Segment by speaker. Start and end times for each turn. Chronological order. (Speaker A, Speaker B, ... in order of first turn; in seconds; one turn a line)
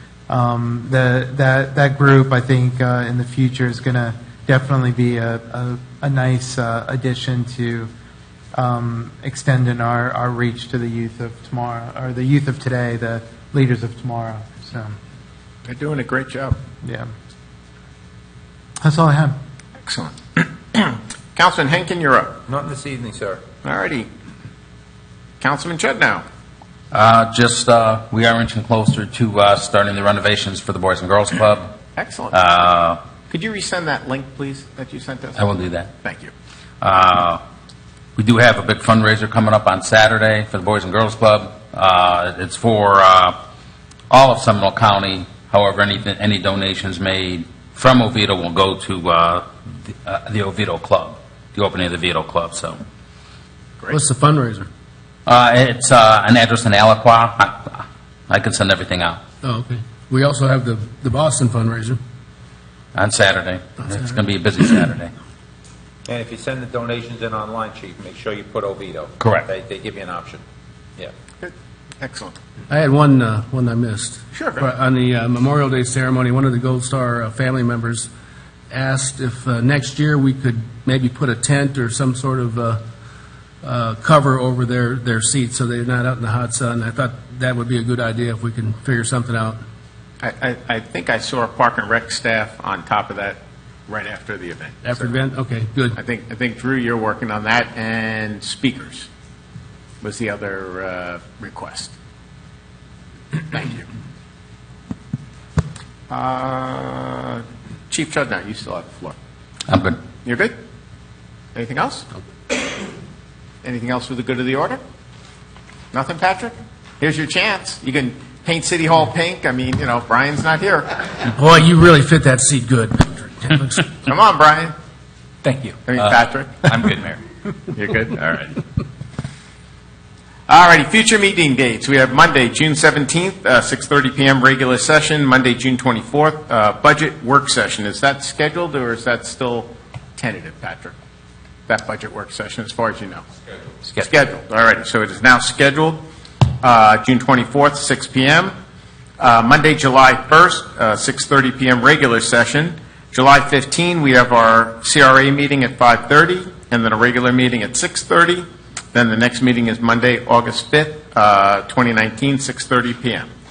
Speaker A: 0.3-7.9
Speaker A: 8.5-15.0
Speaker B: 15.7-16.6
Speaker A: 16.8-17.1
Speaker A: 18.8-19.4
Speaker B: 19.8-22.3
Speaker C: 22.5-23.4
Speaker B: 23.6-24.1
Speaker B: 25.4-26.2
Speaker D: 26.9-31.7
Speaker B: 31.9-32.4
Speaker D: 32.3-33.0
Speaker B: 33.3-35.5
Speaker D: 35.4-35.9
Speaker B: 36.0-36.3
Speaker D: 36.8-37.4
Speaker D: 38.2-43.4
Speaker D: 44.1-52.8
Speaker E: 53.9-54.7
Speaker D: 55.3-59.2
Speaker E: 59.4-62.0
Speaker D: 62.9-65.1
Speaker C: 66.1-70.4
Speaker D: 69.2-69.5
Speaker B: 71.4-72.4
Speaker E: 72.7-78.1
Speaker B: 74.3-74.7
Speaker E: 78.7-82.8
Speaker E: 83.6-89.6
Speaker B: 90.2-95.1
Speaker E: 94.8-96.0
Speaker B: 95.9-99.1
Speaker B: 100.0-101.9
Speaker B: 103.5-103.9
Speaker B: 106.1-109.2
Speaker D: 109.7-110.0
Speaker B: 110.2-110.5
Speaker B: 111.5-112.7
Speaker B: 113.6-114.8
Speaker B: 115.9-121.1
Speaker E: 121.3-123.9
Speaker B: 124.0-124.7
Speaker C: 125.4-128.5
Speaker B: 125.9-126.7
Speaker B: 127.8-128.1
Speaker B: 130.5-140.9
Speaker B: 141.7-143.2
Speaker B: 143.8-146.0
Speaker B: 146.6-148.6
Speaker B: 149.2-163.3